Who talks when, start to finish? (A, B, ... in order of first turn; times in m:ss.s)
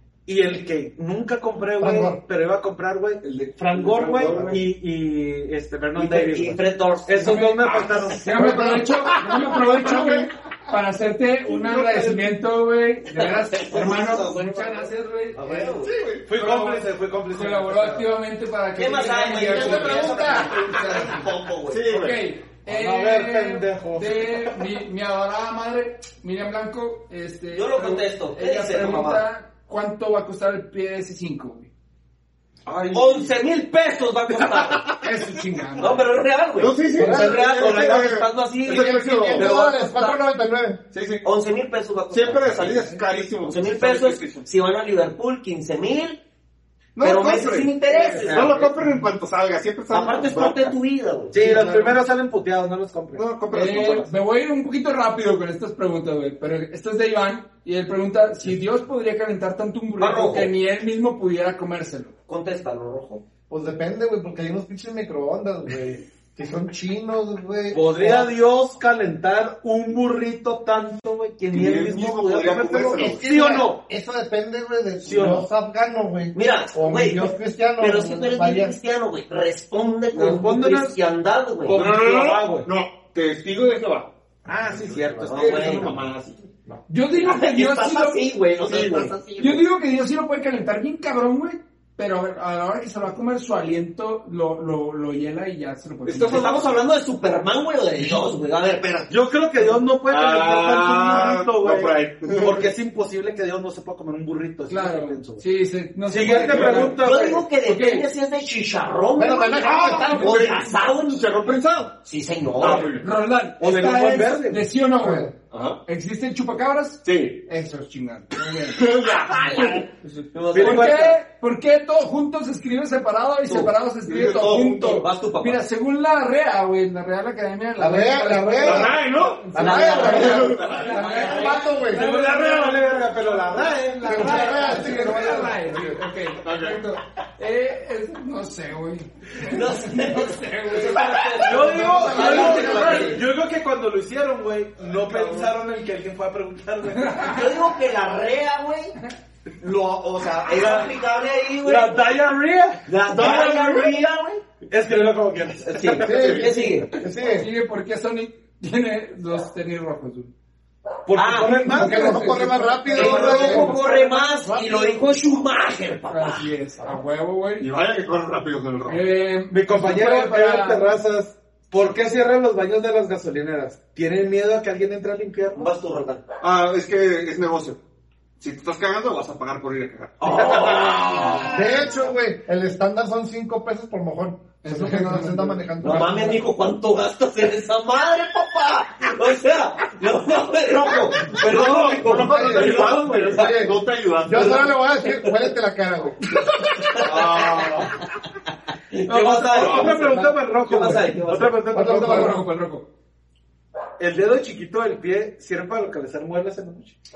0:00.3-0:08.7 A
0:01.8-0:02.2 B
0:03.2-0:04.7 C
0:06.0-0:07.6 D
0:07.2-0:15.8 E
0:08.4-0:08.9 B
0:09.4-0:10.2 C
0:11.4-0:12.3 C
0:13.2-0:14.7 D
0:15.4-0:16.0 D
0:15.8-0:16.3 C
0:16.2-0:18.1 A
0:16.3-0:21.3 E
0:18.8-0:21.9 D
0:19.5-0:20.5 B
0:21.7-0:22.2 C
0:21.9-0:31.7 E
0:22.6-0:24.6 A
0:27.5-0:29.2 D
0:32.7-0:33.3 C
0:32.9-0:34.9 D
0:34.3-0:35.0 C
0:35.0-0:36.0 E
0:35.8-0:40.2 D
0:36.6-0:39.5 C
0:37.0-0:37.7 B
0:38.7-0:40.8 B
0:40.9-0:41.2 C
0:41.2-0:46.2 D
0:42.1-0:44.5 C
0:47.0-0:50.7 C
0:47.0-0:48.7 D
0:48.0-0:48.7 A
0:49.9-0:51.4 D
0:51.3-0:54.0 A
0:51.4-0:51.9 B
0:51.5-0:51.9 C
0:53.1-0:54.1 C
0:53.5-1:02.1 E
1:00.0-1:00.5 D
1:02.3-1:03.2 D
1:03.5-1:08.3 B
1:07.7-1:13.8 A
1:11.5-1:13.3 C
1:12.9-1:18.8 B
1:15.0-1:15.5 A
1:16.3-1:21.8 D
1:20.1-1:21.0 A
1:21.7-1:22.7 A
1:21.7-1:24.1 C
1:24.4-1:26.1 A
1:24.7-1:26.5 C
1:25.2-1:25.9 D
1:26.9-1:28.3 E
1:27.2-1:29.6 D
1:28.6-1:29.2 C
1:29.4-1:36.6 E
1:36.1-1:36.7 C
1:36.2-1:39.1 D
1:39.1-1:45.4 A
1:40.1-1:42.7 C
1:44.7-1:48.1 E
1:46.0-1:47.4 A
1:46.2-1:47.0 C
1:47.0-1:51.2 D
1:49.2-1:50.5 B
1:49.6-1:52.0 C
1:49.9-1:50.4 E
1:52.0-1:53.0 D
1:52.6-1:53.1 C
1:52.8-1:55.3 E
1:53.6-1:54.7 A
1:55.0-1:55.3 B
1:55.5-1:55.8 C
1:55.9-1:58.8 E
1:57.0-1:57.4 C
1:58.6-1:59.9 C
1:59.0-2:01.2 D
2:00.5-2:01.2 A
2:00.6-2:23.2 E
2:04.0-2:05.1 C
2:04.8-2:05.6 D
2:07.8-2:09.0 B
2:08.6-2:11.0 C
2:09.5-2:12.1 B
2:09.6-2:11.6 D
2:11.9-2:14.7 A
2:14.0-2:16.0 B
2:16.4-2:16.8 C
2:19.5-2:23.2 D
2:21.4-2:27.4 A
2:21.7-2:23.2 B
2:24.9-2:25.5 D
2:27.0-2:27.5 E
2:27.3-2:29.0 D
2:29.6-2:32.0 D
2:30.5-2:30.9 A
2:31.6-2:34.0 A
2:32.9-2:34.4 D
2:34.7-2:36.7 A
2:35.7-2:36.9 D
2:36.0-2:37.5 B
2:37.3-2:40.3 E
2:41.1-2:43.8 A
2:41.2-2:41.8 D
2:41.5-2:44.0 E
2:41.6-2:43.8 B
2:42.9-2:46.5 D
2:44.4-2:45.0 B
2:46.1-2:47.7 E
2:47.6-2:49.0 C
2:48.9-2:50.9 E
2:49.5-2:55.7 A
2:55.6-2:56.2 D
2:56.4-2:57.8 C
2:58.4-3:01.5 C
3:00.2-3:02.0 D
3:01.2-3:01.5 E
3:01.5-3:06.5 B
3:04.6-3:06.1 E
3:05.8-3:13.8 D
3:11.2-3:14.7 C
3:12.0-3:16.2 B
3:14.3-3:15.4 D
3:16.3-3:18.1 D
3:16.9-3:18.0 C
3:18.9-3:21.6 D
3:19.1-3:22.4 A
3:21.7-3:22.4 B
3:21.8-3:22.9 E
3:24.0-3:27.0 A